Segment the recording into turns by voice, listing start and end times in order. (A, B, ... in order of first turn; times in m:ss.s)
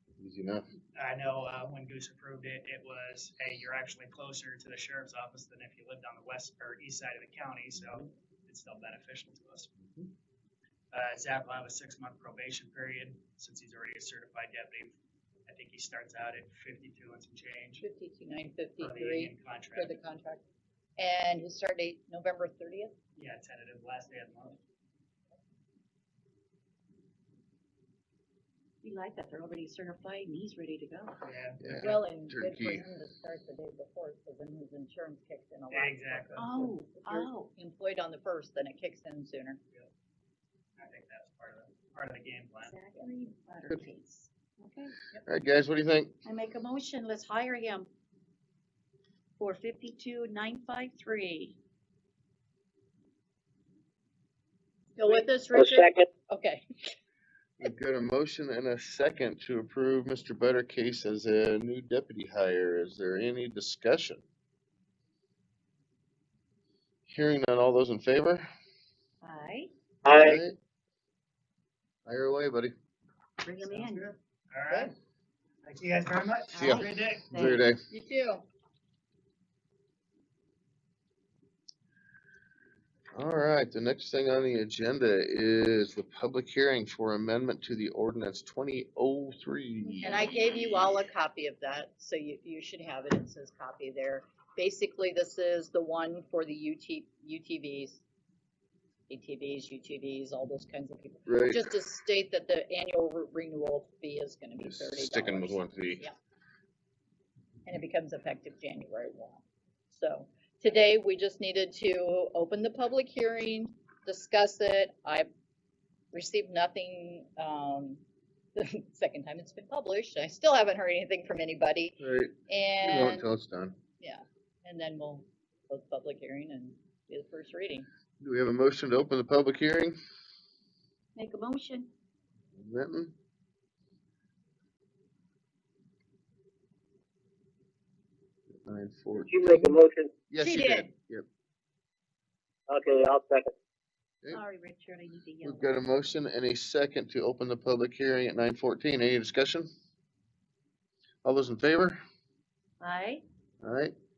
0:00.2-0:00.7 A
0:01.0-0:09.7 B
0:09.8-0:10.1 A
0:10.9-0:17.8 B
0:17.8-0:20.4 C
0:18.8-0:20.0 B
0:21.0-0:22.9 C
0:23.2-0:24.6 B
0:28.8-0:31.2 D
0:31.2-0:32.0 B
0:31.6-0:32.9 A
0:31.8-0:39.6 C
0:35.7-0:36.5 B
0:36.4-0:37.6 D
0:40.8-0:42.8 B
0:42.6-0:44.9 D
0:45.3-0:46.1 A
0:46.2-0:47.9 D
0:49.4-0:51.6 D
0:55.0-0:56.9 C
0:55.5-0:56.1 E
0:57.6-1:04.2 A
1:07.1-1:08.5 A
1:09.2-1:09.7 D
1:10.0-1:10.4 E
1:10.2-1:10.6 A
1:12.1-1:12.7 A
1:13.4-1:14.1 D
1:13.6-1:14.9 B
1:15.6-1:17.6 B
1:16.5-1:17.7 D
1:16.6-1:17.8 A
1:17.9-1:18.4 C
1:23.1-1:30.3 A
1:30.0-1:38.0 C
1:39.1-1:46.2 C
1:41.3-1:41.7 A
1:44.6-1:46.1 A
1:47.7-1:55.3 C
1:56.1-1:58.0 C
1:58.6-2:03.3 C
2:02.0-2:03.8 A
2:04.0-2:07.9 C
2:08.2-2:10.0 A
2:11.2-2:11.9 D
2:12.6-2:13.1 A
2:18.6-2:21.2 A
2:19.2-2:20.1 E
2:20.4-2:20.9 C
2:22.7-2:23.5 E
2:24.3-2:25.7 D
2:25.4-2:29.7 A
2:31.2-2:32.0 A
2:32.8-2:33.2 D
2:33.6-2:33.9 A